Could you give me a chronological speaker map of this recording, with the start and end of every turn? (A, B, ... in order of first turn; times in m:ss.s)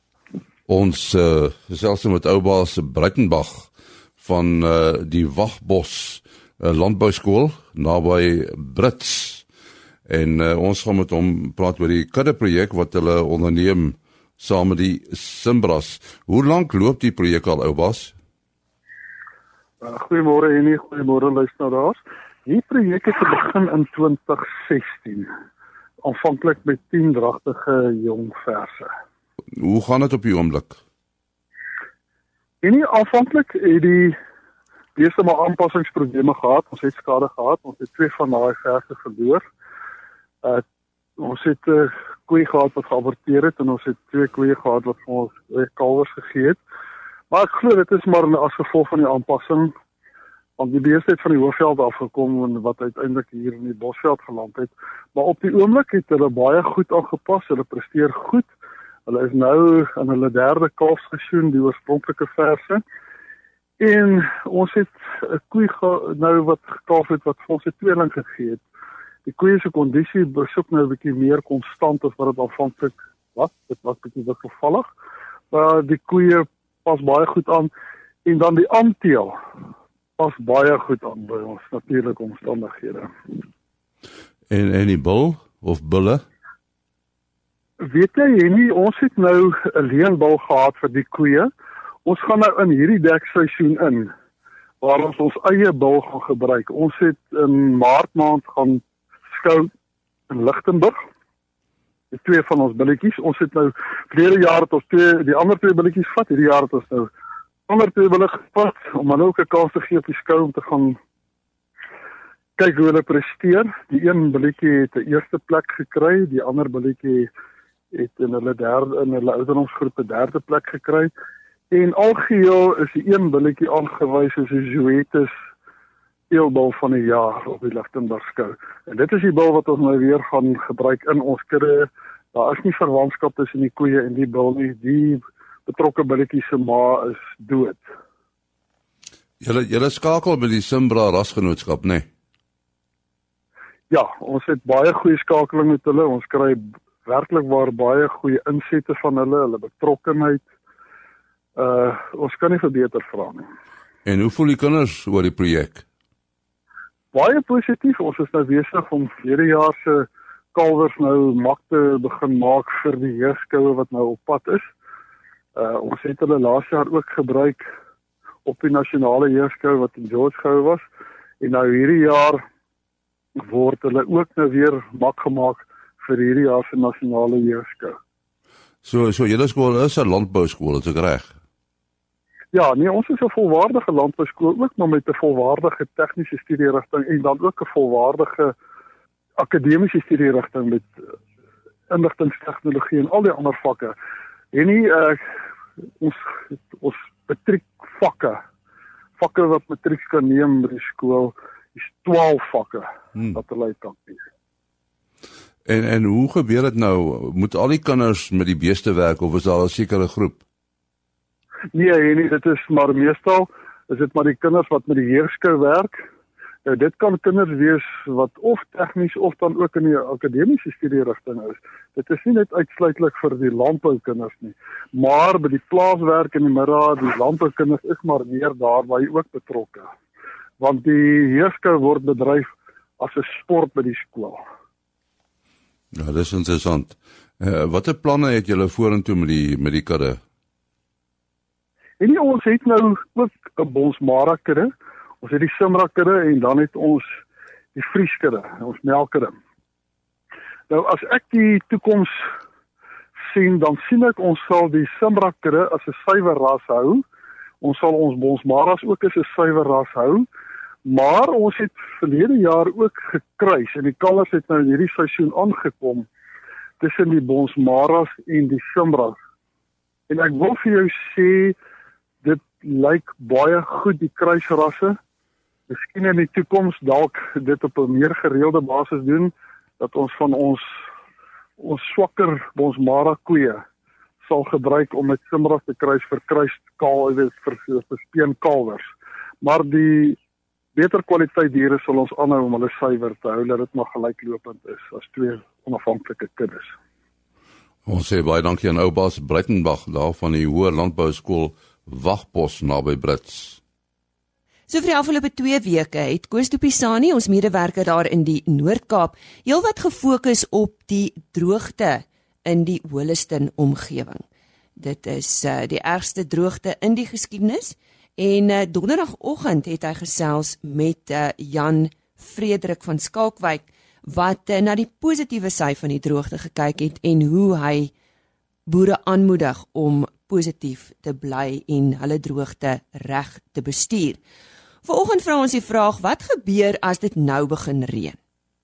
0:00.7-0:09.4 A
0:10.1-0:18.1 A
0:19.8-0:25.3 B
0:26.0-0:28.9 B
0:29.6-0:30.8 A
0:32.6-0:34.2 B
0:35.0-0:39.4 B
0:41.2-0:46.6 B
0:47.3-0:49.7 B
0:50.6-0:58.5 B
0:59.1-1:02.8 B
1:03.8-1:08.6 B
1:09.2-1:14.9 B
1:15.5-1:17.7 B
1:18.2-1:19.4 B
1:20.2-1:23.1 B
1:24.5-1:26.2 A
1:27.8-1:31.5 B
1:32.0-1:34.1 B
1:34.8-1:38.8 B
1:39.4-1:39.7 B
1:40.3-1:41.0 B
1:42.1-1:47.1 B
1:47.7-1:51.0 B
1:52.6-1:57.3 B
1:57.9-2:01.1 B
2:01.7-2:05.3 B
2:06.3-2:17.8 B
2:19.4-2:22.0 A
2:23.9-2:30.4 B
2:31.6-2:33.4 B
2:34.0-2:35.8 A
2:37.1-2:44.7 B
2:45.6-2:47.6 B
2:48.4-2:50.8 B
2:51.4-2:52.4 B
2:53.4-2:58.0 B
2:58.8-3:01.3 A
3:02.5-3:08.5 B
3:09.4-3:10.9 B
3:11.9-3:13.9 B
3:14.5-3:15.2 B
3:16.0-3:18.4 B
3:19.2-3:24.2 B
3:25.6-3:30.4 A
3:31.7-3:36.0 B
3:36.6-3:49.9 B
3:50.6-3:54.4 B
3:55.9-4:00.2 A
4:02.0-4:07.0 B
4:07.7-4:09.3 B
4:10.7-4:12.2 B
4:13.3-4:17.0 B
4:17.6-4:20.2 B
4:20.8-4:26.1 B
4:26.8-4:29.2 B
4:30.1-4:31.5 B
4:32.2-4:35.0 B
4:35.7-4:40.6 B
4:41.6-4:43.6 B
4:44.2-4:48.9 B
4:49.4-4:50.2 B
4:50.8-4:56.7 B
4:57.8-5:03.6 A
5:04.7-5:14.2 C
5:14.8-5:27.9 C
5:28.7-5:34.2 C
5:34.8-5:38.2 C